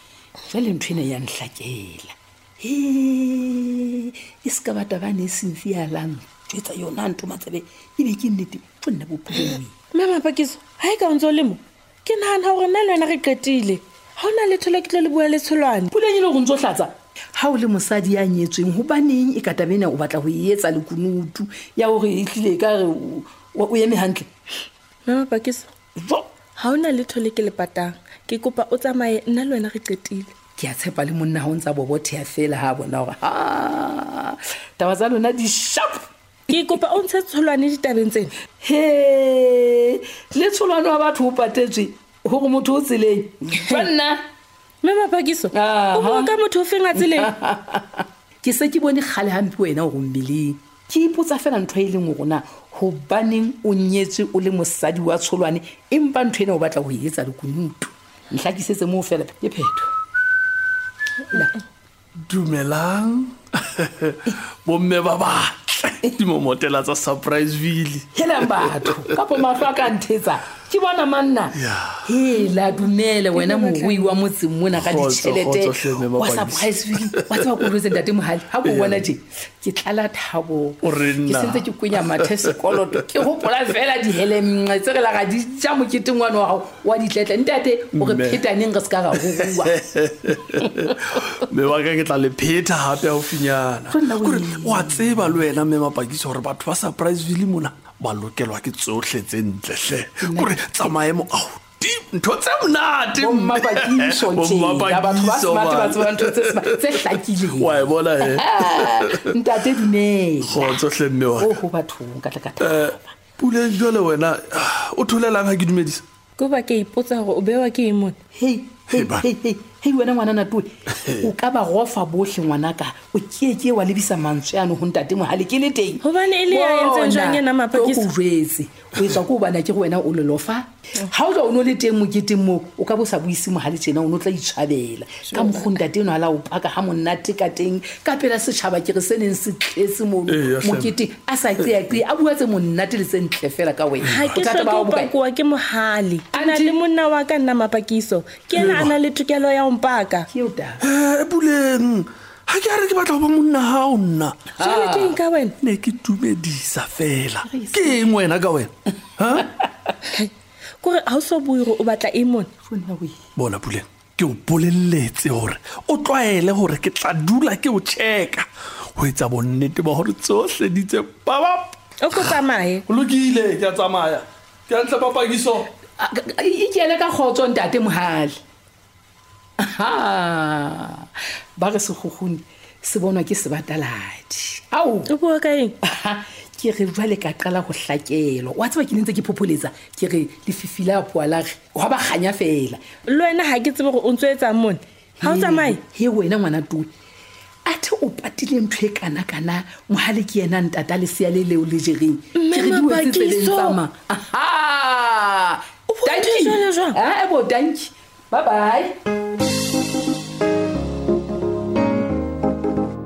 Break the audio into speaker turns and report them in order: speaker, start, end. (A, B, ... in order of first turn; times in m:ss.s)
0:00.5-0:09.7 A
0:09.9-0:15.9 B
0:15.9-0:24.3 A
0:25.1-0:25.7 B
0:26.0-0:26.3 A
0:26.6-0:30.3 B
0:30.6-0:36.7 A
0:36.5-0:38.3 B
0:38.6-0:44.2 A
0:44.8-0:47.3 B
0:45.5-0:46.4 A
0:47.0-0:59.9 A
1:01.3-1:01.6 A
1:02.2-1:09.2 C
1:08.2-1:29.8 A
1:11.5-1:12.1 C
1:13.3-1:14.0 B
1:14.7-1:17.8 C
1:18.6-1:19.1 C
1:20.8-1:23.0 C
1:28.0-1:28.4 C
1:29.2-1:49.4 C
1:30.4-1:31.2 A
1:33.9-1:35.4 A
1:40.2-1:40.9 A
1:43.2-1:50.8 A
1:50.4-1:51.6 C
1:51.4-1:53.1 A
1:52.6-1:56.0 C
1:56.4-1:58.2 B
1:58.4-2:25.1 A
1:58.9-1:59.3 C
2:06.0-2:08.1 B
2:15.3-2:15.7 B
2:20.3-2:21.0 C
2:21.6-2:21.9 C
2:24.1-2:24.5 C
2:24.1-2:30.3 B
2:26.3-2:26.8 A
2:28.6-2:29.0 C
2:30.3-2:30.8 A
2:30.8-2:34.5 C
2:34.6-2:35.2 A
2:34.6-2:35.5 B
2:35.6-2:39.5 C
2:37.4-2:38.0 A
2:40.8-2:42.5 B
2:42.7-2:43.2 A
2:43.4-2:55.7 C
2:52.0-2:52.8 B
2:56.0-2:58.4 A
2:59.6-3:05.1 A
3:05.1-3:05.7 B
3:05.8-3:12.8 A
3:13.1-3:15.8 B
3:15.2-3:16.9 A
3:17.7-3:29.0 A
3:22.4-3:23.8 B
3:26.0-3:27.0 B